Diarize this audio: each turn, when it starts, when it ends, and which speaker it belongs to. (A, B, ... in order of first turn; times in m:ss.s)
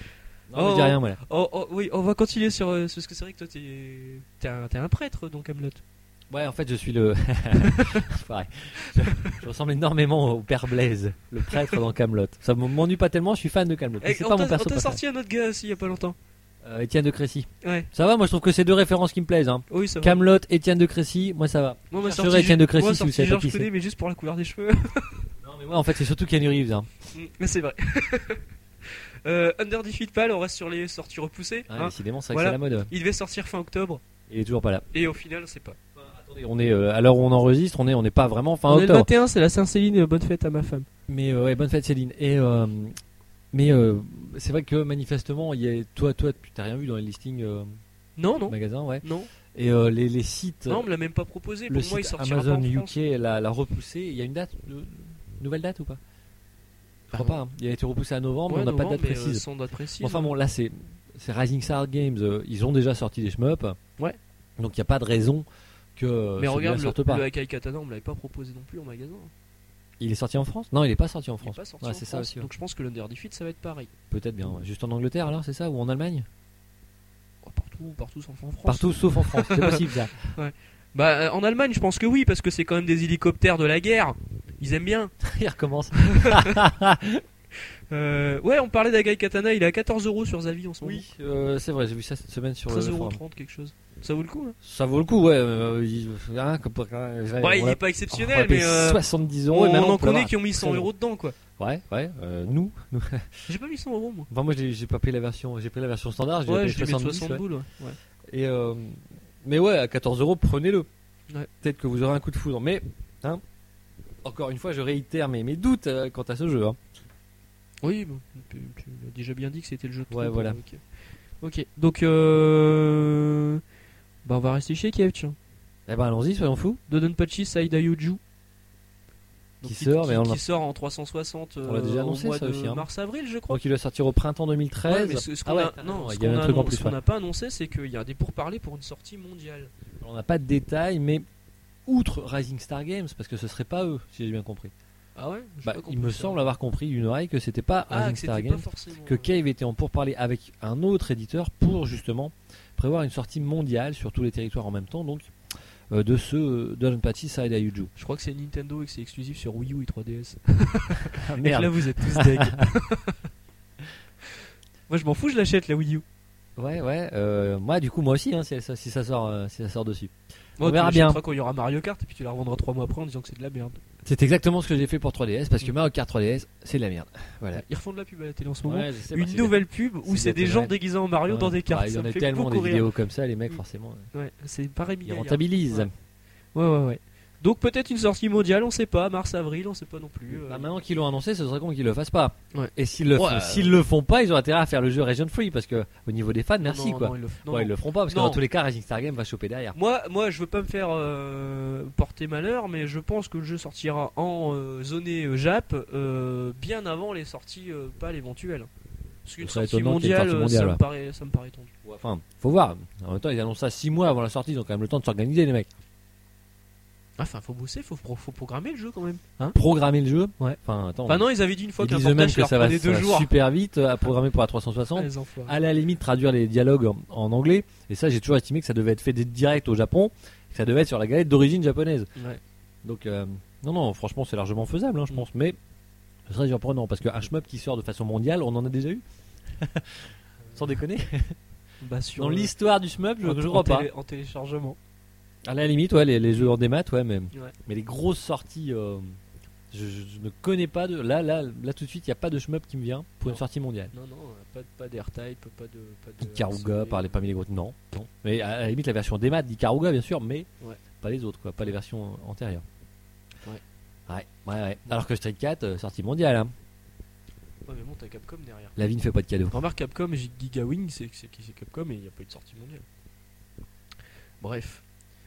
0:00.5-0:01.2 A
0:00.6-0:05.8 B
0:06.3-0:15.0 A
0:07.6-0:08.0 B
0:08.8-0:09.4 B
0:11.5-0:11.8 B
0:14.0-0:16.2 B
0:16.6-0:23.7 A
0:17.6-0:17.9 B
0:19.7-0:20.2 B
0:21.9-0:25.3 B
0:25.4-0:26.9 A
0:27.1-0:34.0 B
0:31.7-0:32.9 A
0:34.3-0:34.8 A
0:34.9-0:35.8 B
0:36.0-0:39.1 A
0:38.7-0:40.9 B
0:41.1-0:43.0 A
0:43.5-0:47.7 A
0:48.2-0:49.3 B
0:48.5-0:50.9 A
0:50.7-0:53.0 B
0:51.7-0:56.0 A
0:57.1-0:57.4 B
0:57.1-0:59.4 A
0:58.5-1:00.3 B
1:00.0-1:03.8 A
1:04.6-1:07.2 A
1:06.4-1:09.3 B
1:10.0-1:12.5 A
1:11.4-1:13.9 B
1:14.1-1:16.3 A
1:17.4-1:25.1 B
1:18.7-1:20.2 A
1:25.2-1:27.2 A
1:26.0-1:26.6 B
1:27.6-1:31.0 B
1:30.8-1:33.2 A
1:32.7-1:34.6 B
1:34.6-1:40.9 A
1:37.4-1:41.4 B
1:41.6-1:43.5 A
1:43.5-1:44.3 B
1:44.3-1:47.4 A
1:46.5-1:48.0 B
1:48.3-1:50.9 A
1:51.6-1:53.4 A
1:54.2-1:56.8 A
1:57.8-2:00.8 B
2:00.1-2:00.6 A
2:01.4-2:03.6 B
2:04.2-2:05.4 B
2:05.9-2:06.8 A
2:06.9-2:08.2 B
2:09.6-2:13.6 B
2:09.6-2:10.4 A
2:11.7-2:12.9 A
2:13.5-2:17.0 A
2:14.9-2:19.7 B
2:20.0-2:21.2 A
2:21.9-2:24.7 A
2:25.2-2:26.5 B
2:25.6-2:35.3 A
2:27.9-2:29.4 B
2:35.9-2:37.9 A
2:38.0-2:43.2 B
2:41.1-2:42.7 A
2:44.9-2:46.0 B
2:46.6-2:51.2 A
2:50.6-2:53.8 B
2:54.0-2:57.6 A
2:57.5-3:02.9 B
2:58.6-3:00.7 A
3:01.3-3:04.1 A
3:04.1-3:05.9 B
3:05.0-3:05.9 A
3:06.6-3:10.7 B
3:10.4-3:19.8 A
3:12.5-3:13.7 B
3:16.6-3:18.4 B
3:19.7-3:28.7 B
3:29.2-3:31.7 B
3:29.4-3:30.8 A
3:31.8-3:35.7 A
3:37.2-3:39.6 B
3:39.5-3:41.3 A
3:40.4-3:43.3 B
3:41.8-3:52.1 A
3:45.0-3:45.6 B
3:52.2-3:52.4 B
3:52.8-3:55.6 A
3:56.3-4:01.4 A
4:01.8-4:02.5 B
4:02.2-4:03.9 A
4:03.2-4:04.8 B
4:05.5-4:09.2 A
4:09.7-4:13.9 A
4:13.9-4:17.1 B
4:16.2-4:20.5 A
4:21.0-4:22.6 A
4:24.1-4:26.5 A
4:27.7-4:28.8 B
4:28.8-4:29.6 A
4:29.5-4:32.8 B
4:34.4-4:34.8 B